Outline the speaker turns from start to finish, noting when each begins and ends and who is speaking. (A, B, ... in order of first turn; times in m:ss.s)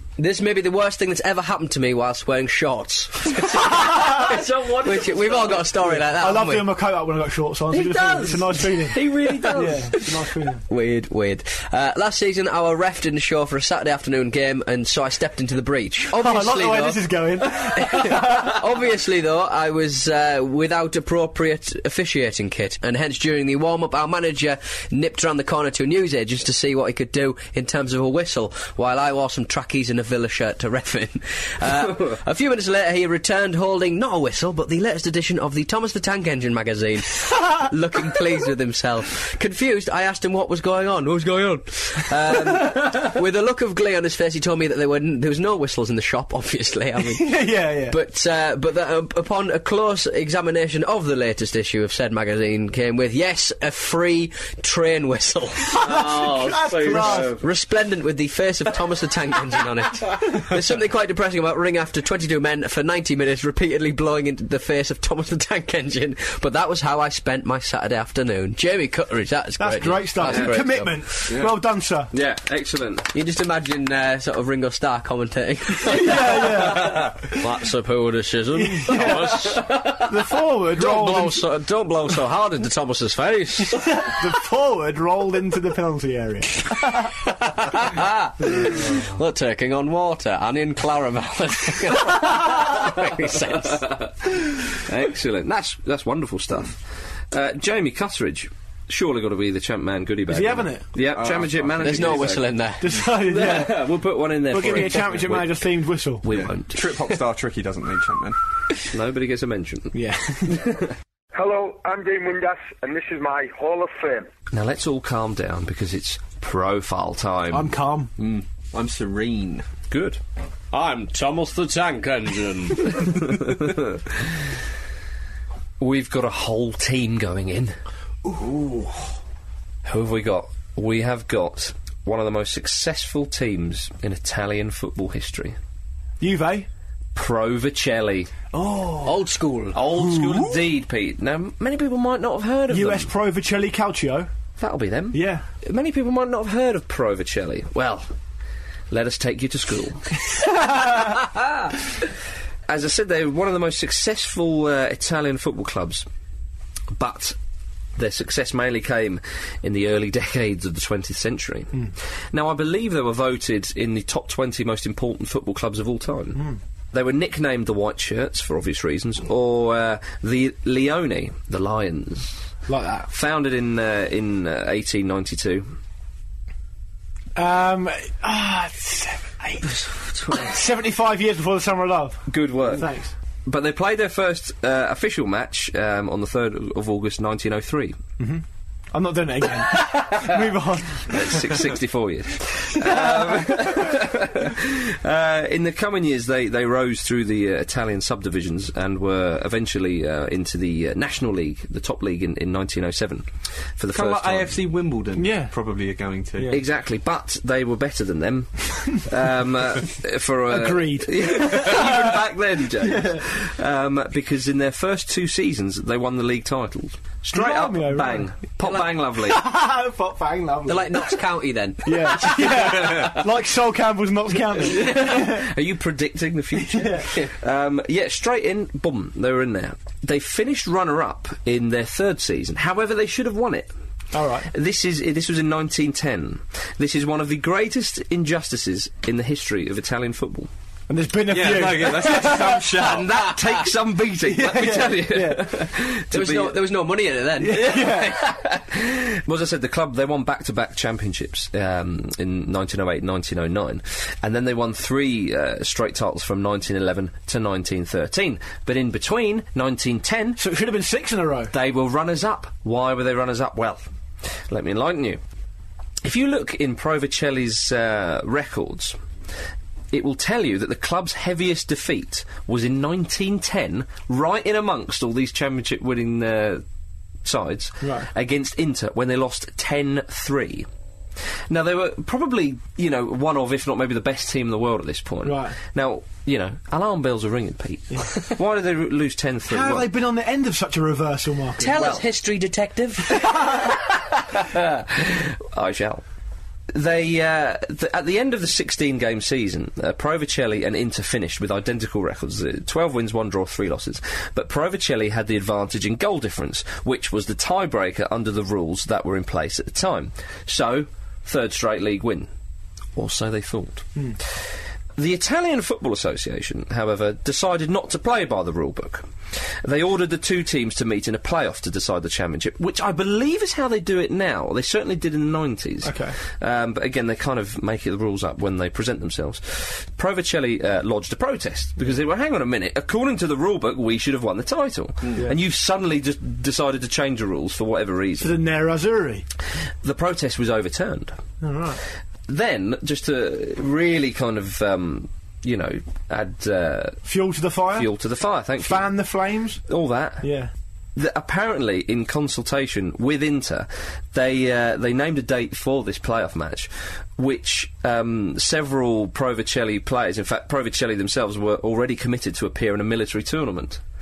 0:00.2-0:06.7 A
0:03.7-0:04.2 B
0:03.9-0:05.7 C
0:05.9-0:10.6 B
0:07.7-0:10.0 C
0:10.7-0:17.0 A
0:16.1-0:18.5 B
0:17.7-0:55.8 A
0:47.2-0:48.0 B
0:55.7-0:57.4 B
0:55.8-0:57.4 C
0:56.9-1:11.0 A
1:09.6-1:12.1 B
1:10.2-1:10.6 C
1:12.1-1:13.1 C
1:13.1-1:20.2 A
1:15.9-1:17.5 B
1:18.5-1:21.4 B
1:20.7-1:23.9 A
1:23.7-1:27.1 B
1:27.3-1:34.0 A
1:34.0-1:36.8 C
1:37.3-1:42.5 C
1:40.3-1:40.8 B
1:41.1-1:42.3 D
1:41.8-1:43.0 A
1:42.8-1:43.9 B
1:43.1-1:45.6 C
1:44.5-1:46.2 B
1:46.2-1:46.9 C
1:46.3-1:48.4 D
1:48.9-1:50.0 C
1:49.9-1:50.7 B
1:50.5-1:50.9 C
1:51.3-1:54.3 E
1:54.5-1:57.7 C
1:57.5-1:58.1 B
1:58.2-1:59.6 D
1:59.9-2:00.2 C
2:00.7-2:03.0 A
2:03.0-2:03.8 C
2:05.8-2:07.8 C
2:08.2-2:09.1 D
2:09.8-2:15.6 C
2:16.2-2:16.7 B
2:17.1-2:18.3 C
2:18.5-2:19.2 B
2:19.0-2:19.8 A
2:19.7-2:23.1 C
2:19.8-2:20.6 B
2:22.7-2:24.3 B
2:24.6-2:28.1 C
2:25.1-2:25.4 B
2:28.9-2:30.2 C
2:30.4-2:31.0 B
2:32.7-2:36.0 C
2:36.9-2:37.4 C
2:38.0-2:52.4 C
2:52.7-2:53.1 B
2:53.1-2:55.7 C
2:57.4-3:03.1 B
3:00.2-3:00.5 A
3:02.3-3:02.9 C
3:03.4-3:08.0 C
3:08.2-3:11.7 B
3:09.7-3:10.3 C
3:11.1-3:24.6 C
3:12.8-3:13.9 B
3:23.9-3:26.6 D
3:25.2-3:25.5 B
3:26.5-3:39.4 C
3:30.5-3:32.2 B
3:32.8-3:33.2 B
3:37.3-3:38.3 B
3:39.2-3:41.2 B
3:40.7-3:43.0 A
3:41.8-3:45.5 B
3:44.6-3:53.7 C
3:46.5-3:47.1 B
3:54.1-3:54.5 B
3:54.5-4:00.5 C
4:00.9-4:02.8 B
4:01.3-4:03.2 D
4:02.7-4:06.6 C
4:03.1-4:03.6 A
4:04.2-4:05.5 B
4:06.1-4:08.1 A
4:07.4-4:08.2 B
4:07.5-4:20.4 C
4:20.4-4:21.5 B
4:21.5-4:23.8 C
4:24.5-4:25.2 C
4:26.0-4:29.0 C
4:29.9-4:36.6 C
4:37.2-4:40.7 C
4:37.8-4:38.1 B
4:41.5-4:49.9 C
4:45.2-4:45.6 B
4:49.5-4:51.8 B
4:51.6-4:53.3 A
4:51.7-4:52.0 C
4:53.4-4:56.0 C
4:56.7-5:12.3 C
5:13.0-5:14.4 C
5:15.0-5:38.4 C
5:25.8-5:26.2 B
5:38.2-5:39.2 B
5:39.8-5:41.2 C
5:41.4-5:41.8 B
5:42.3-5:47.0 C
5:47.0-5:47.9 B
5:47.7-5:48.9 C
5:48.6-5:49.6 B
5:49.7-5:50.3 C
5:50.2-5:50.5 B
5:51.0-6:03.8 C